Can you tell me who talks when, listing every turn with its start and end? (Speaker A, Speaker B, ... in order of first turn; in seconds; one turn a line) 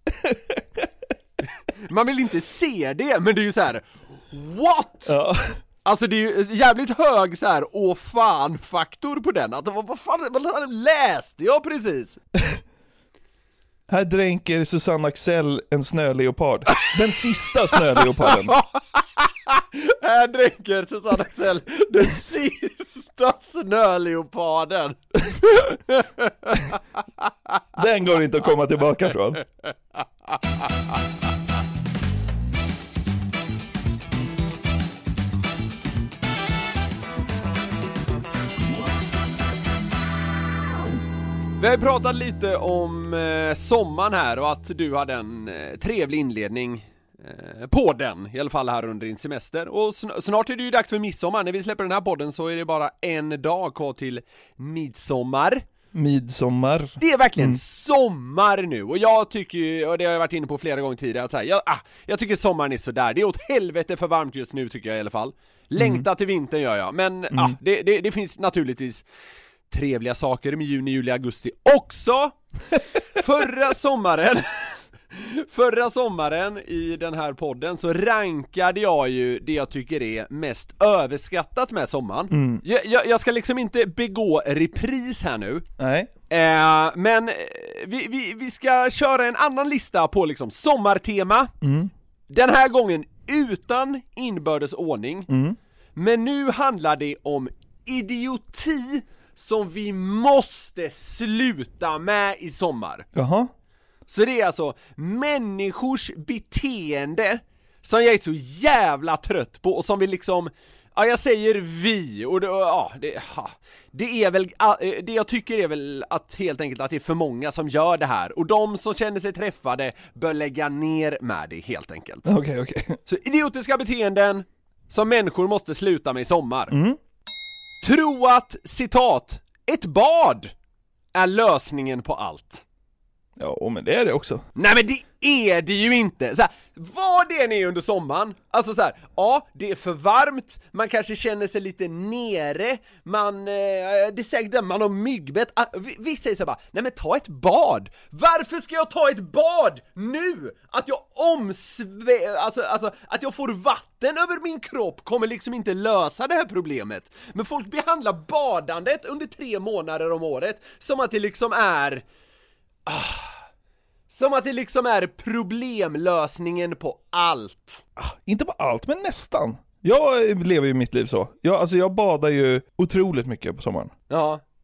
Speaker A: 0.2-0.8
Speaker B: 1.9-5.1
Speaker A: 5.1-5.6
Speaker B: 5.8-12.2
Speaker A: 13.9-18.6
Speaker B: 18.3-18.6
Speaker B: 19.5-26.7
Speaker A: 27.8-29.4
Speaker B: 41.6-55.6
Speaker A: 55.9-57.6
Speaker B: 57.0-69.0
Speaker A: 65.8-66.1
Speaker A: 67.3-67.6
Speaker B: 69.7-72.4
Speaker B: 73.2-85.7
Speaker A: 82.3-82.6
Speaker A: 85.8-86.1
Speaker B: 86.3-91.5
Speaker A: 91.6-91.9
Speaker B: 92.3-95.3
Speaker A: 95.3-95.6
Speaker B: 96.0-103.0
Speaker A: 103.1-103.5
Speaker B: 104.1-122.3
Speaker A: 122.2-123.0
Speaker B: 123.1-126.7
Speaker A: 126.7-127.0
Speaker B: 127.8-130.5
Speaker B: 131.1-132.6
Speaker A: 133.4-134.4
Speaker B: 134.6-162.0
Speaker B: 162.9-163.3
Speaker B: 164.1-167.8
Speaker A: 168.0-173.9
Speaker B: 174.1-174.4